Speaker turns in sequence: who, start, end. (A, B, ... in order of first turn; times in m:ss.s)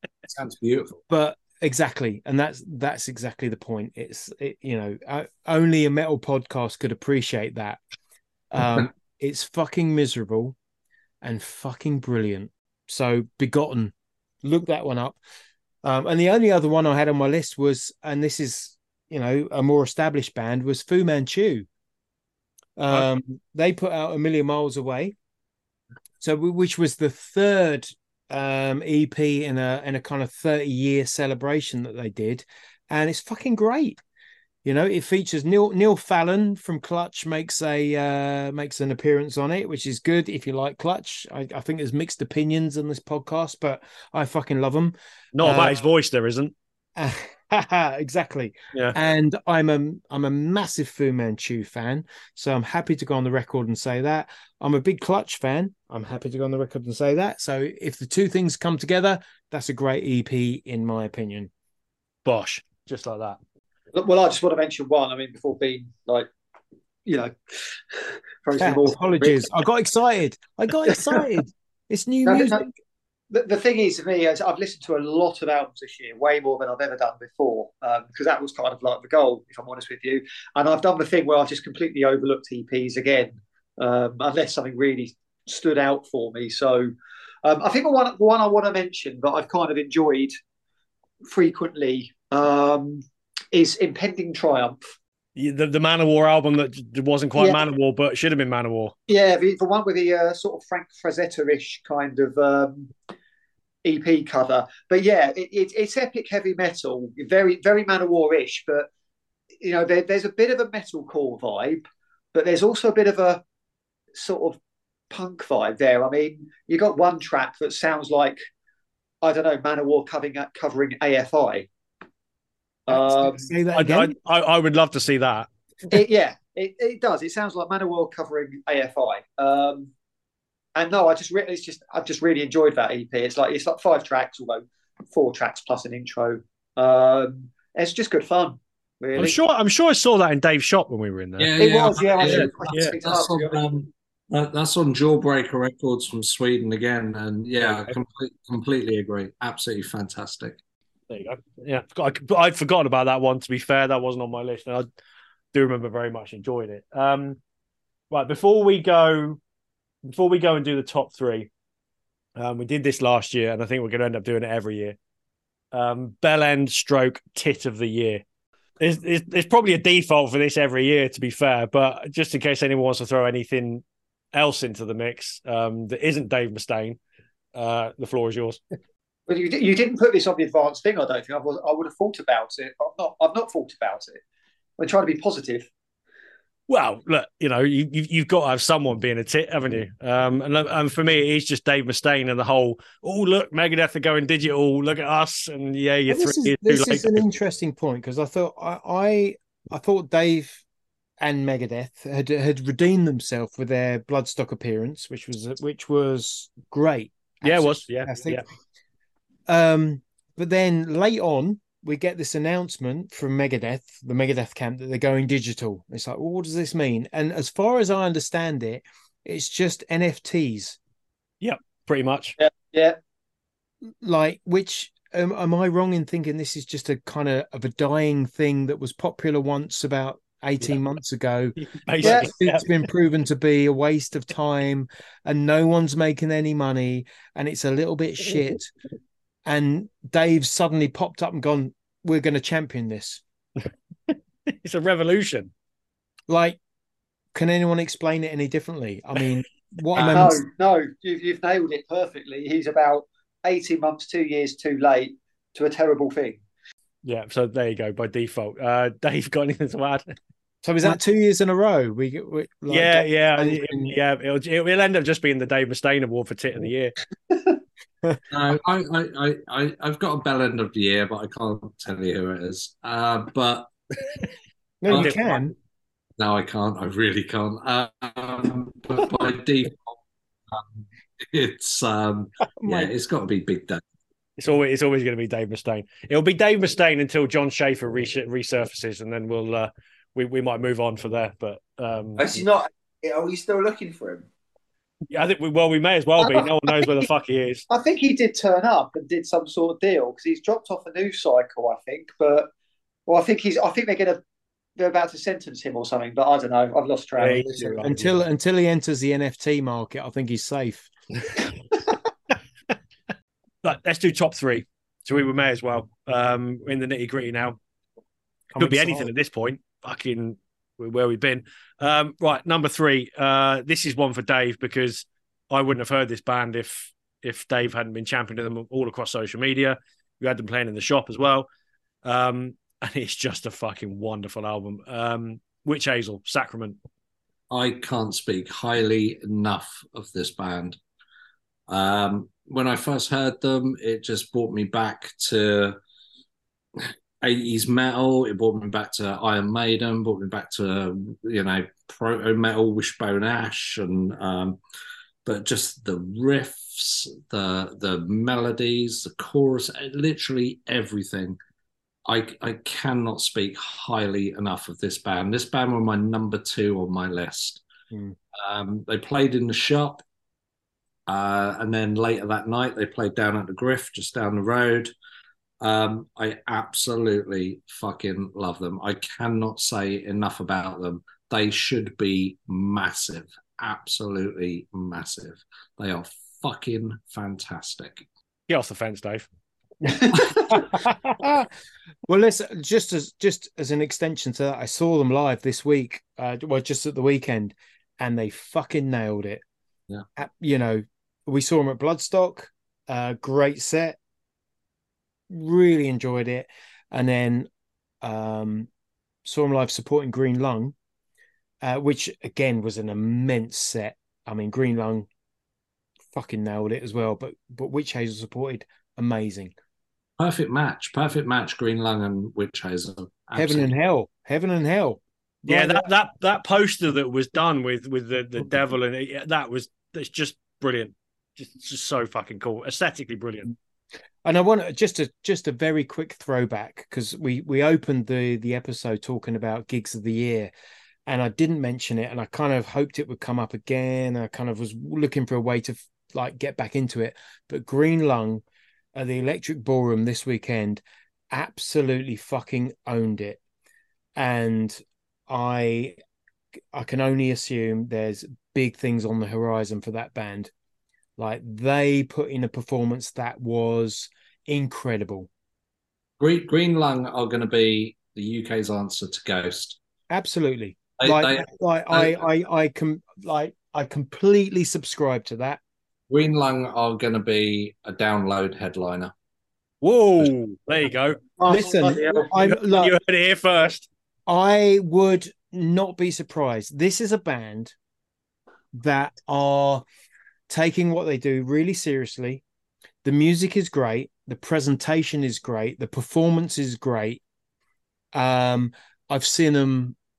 0:00.3-0:01.0 A
0:01.1-0:07.8 B
0:08.5-0:10.6 B
0:11.2-0:15.2 B
0:15.8-0:21.7 B
0:22.8-0:25.2 B
0:26.2-0:34.0 B
0:34.6-0:45.8 B
0:45.4-0:46.5 C
0:47.0-1:01.5 B
1:02.2-1:03.4 C
1:03.9-1:06.3 D
1:07.1-1:09.5 D
1:08.6-1:12.7 B
1:10.8-1:11.2 D
1:12.3-1:12.6 D
1:13.3-1:26.9 D
1:27.4-1:30.4 D
1:31.3-1:34.8 D
1:35.4-1:38.9 C
1:39.1-1:42.9 D
1:43.8-1:48.9 D
1:49.6-1:51.8 D
1:52.3-1:53.4 D
1:54.1-1:54.6 D
1:55.1-1:58.4 D
1:59.2-2:01.7 D
2:02.9-2:03.5 D
2:02.9-2:04.2 B
2:03.7-2:05.5 C
2:05.9-2:09.9 D
2:10.8-2:19.4 D
2:19.2-2:21.6 C
2:21.4-2:30.6 A
2:21.6-2:23.6 D
2:22.2-2:23.0 C
2:27.7-2:28.0 C
2:31.1-2:34.9 C
2:35.5-2:37.4 C
2:38.1-2:39.4 C
2:40.0-2:41.5 C
2:42.4-2:45.0 C
2:45.7-2:48.2 C
2:48.8-2:57.0 C
2:57.6-2:58.6 C
2:59.3-3:04.2 D
3:04.8-3:05.7 D
3:06.7-3:17.2 C
3:16.1-3:20.6 B
3:21.2-3:28.4 B
3:27.4-3:28.4 C
3:29.5-3:40.8 B
3:41.4-3:42.4 C
3:42.4-3:43.0 D
3:44.0-3:58.7 B
3:51.6-3:52.7 C
3:52.0-3:52.3 D
3:59.4-4:03.2 B
4:04.1-4:05.5 C
4:06.3-4:06.6 B
4:07.3-4:10.4 B
4:09.9-4:10.4 C
4:10.1-4:16.4 D
4:17.0-4:20.1 C
4:20.6-4:24.0 B
4:22.7-4:27.0 C
4:27.3-4:27.6 D
4:28.3-4:33.7 A
4:34.8-4:35.5 B
4:34.9-4:35.4 A
4:36.2-4:40.0 A
4:40.5-4:43.8 A
4:42.6-4:42.9 B
4:44.4-4:52.5 C
4:52.2-4:54.2 E
4:55.1-4:57.6 C
4:56.2-4:56.8 D
4:57.7-5:02.5 D
5:03.1-5:04.2 D
5:04.8-5:07.9 D
5:07.2-5:08.2 C
5:07.8-5:10.9 B
5:13.6-5:17.6 C
5:18.5-5:19.1 B
5:18.6-5:31.5 C
5:32.0-5:36.8 C
5:37.5-5:40.8 A
5:41.7-5:45.8 A
5:46.8-5:54.6 A
5:55.2-6:01.4 A
6:02.1-6:07.6 A
6:08.4-6:10.0 A
6:11.1-6:14.9 A
6:15.6-6:28.1 A
6:28.5-6:29.3 C
6:30.0-6:30.7 D
6:30.5-6:31.5 B
6:32.1-6:39.4 B
6:40.2-6:44.0 B
6:45.3-6:47.5 B
6:48.0-6:48.7 B
6:49.2-6:50.7 B
6:51.6-6:55.1 B
6:56.1-6:59.5 B
7:00.2-7:03.7 A
7:03.4-7:05.9 B
7:05.5-7:13.6 C
7:14.2-7:20.5 B
7:21.1-7:28.4 B
7:29.0-7:33.4 B
7:34.2-7:36.0 B
7:36.7-7:40.5 B
7:41.2-7:45.3 B
7:46.2-7:49.8 A
7:50.1-7:55.6 B
7:51.0-7:52.2 A
7:56.1-7:59.1 A
7:59.8-8:03.9 C
8:01.4-8:02.3 D
8:01.5-8:03.0 B
8:04.3-8:07.7 B
8:08.7-8:09.8 B
8:10.5-8:12.4 B
8:13.0-8:17.2 B
8:18.1-8:20.0 B